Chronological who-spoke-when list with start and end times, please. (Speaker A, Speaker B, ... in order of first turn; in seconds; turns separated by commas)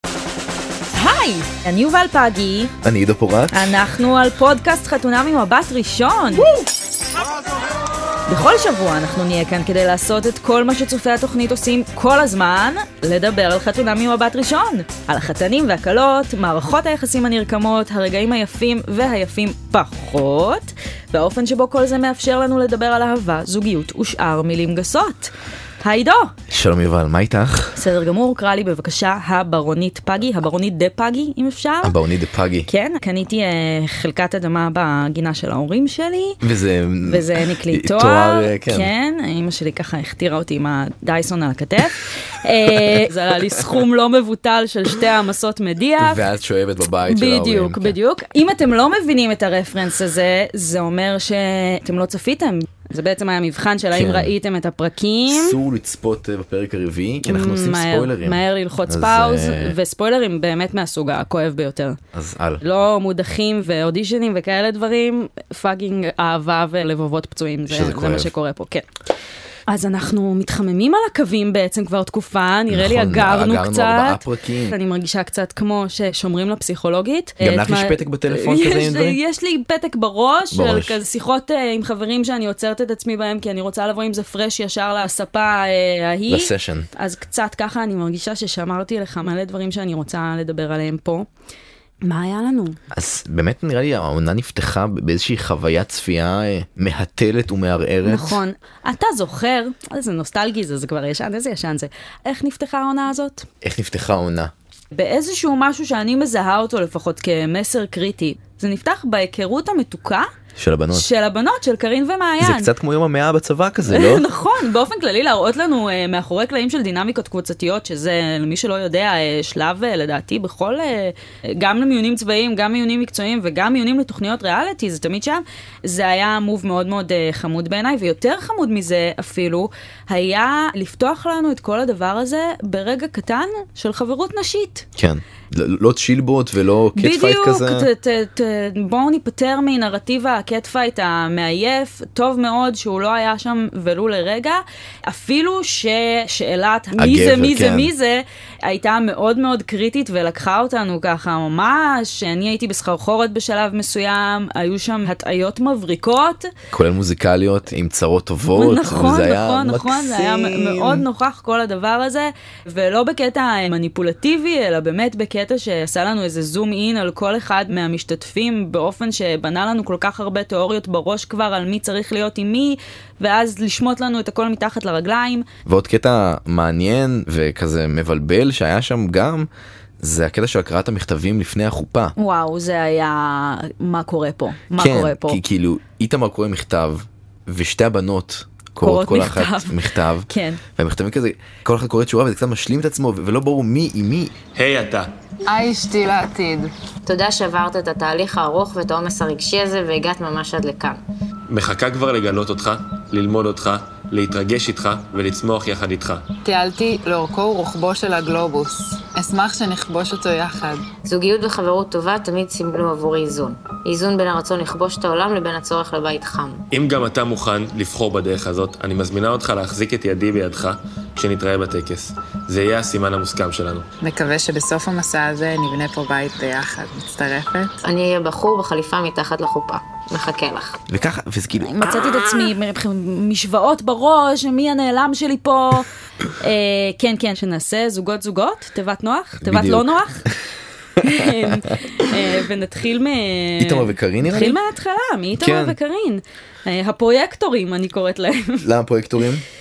Speaker A: 0.9-2.7, Speaker B: 2.8-3.7, Speaker A: 3.5-6.5, Speaker A: 8.3-26.3, Speaker B: 26.5-27.8, Speaker A: 27.8-31.9, Speaker B: 31.8-32.7, Speaker A: 32.7-36.4, Speaker B: 36.4-38.9, Speaker A: 37.0-46.2, Speaker B: 46.0-48.0, Speaker A: 47.0-55.6, Speaker B: 53.9-54.3, Speaker B: 55.3-59.7, Speaker A: 57.2-62.0, Speaker B: 62.1-62.6, Speaker A: 62.6-68.8, Speaker B: 67.7-68.3, Speaker A: 69.7-91.3, Speaker B: 72.7-74.8, Speaker B: 77.4-79.2, Speaker B: 80.5-81.0, Speaker B: 86.3-86.9, Speaker A: 92.0-92.8, Speaker B: 92.9-98.4, Speaker A: 98.0-103.5, Speaker B: 103.6-104.5, Speaker A: 104.9-110.3, Speaker B: 110.6-111.0, Speaker A: 110.9-112.7, Speaker B: 112.4-114.2, Speaker A: 113.9-134.8, Speaker B: 135.0-137.9, Speaker A: 136.9-156.5, Speaker B: 146.9-147.9, Speaker B: 156.7-161.0, Speaker A: 158.5-175.4, Speaker B: 175.7-179.5, Speaker B: 180.0-182.1, Speaker A: 182.2-185.4, Speaker B: 184.8-194.3, Speaker A: 188.8-190.6, Speaker C: 194.5-195.1, Speaker D: 195.4-196.7, Speaker E: 197.1-201.0, Speaker C: 201.5-206.3, Speaker D: 206.4-210.9, Speaker E: 211.0-216.6, Speaker C: 216.7-223.9, Speaker D: 224.0-227.7, Speaker E: 227.8-230.8, Speaker B: 230.9-231.8, Speaker A: 231.6-240.2, Speaker B: 239.4-239.9, Speaker B: 241.0-241.6, Speaker A: 241.0-248.7, Speaker B: 243.6-244.6, Speaker B: 245.3-245.7, Speaker B: 248.6-249.4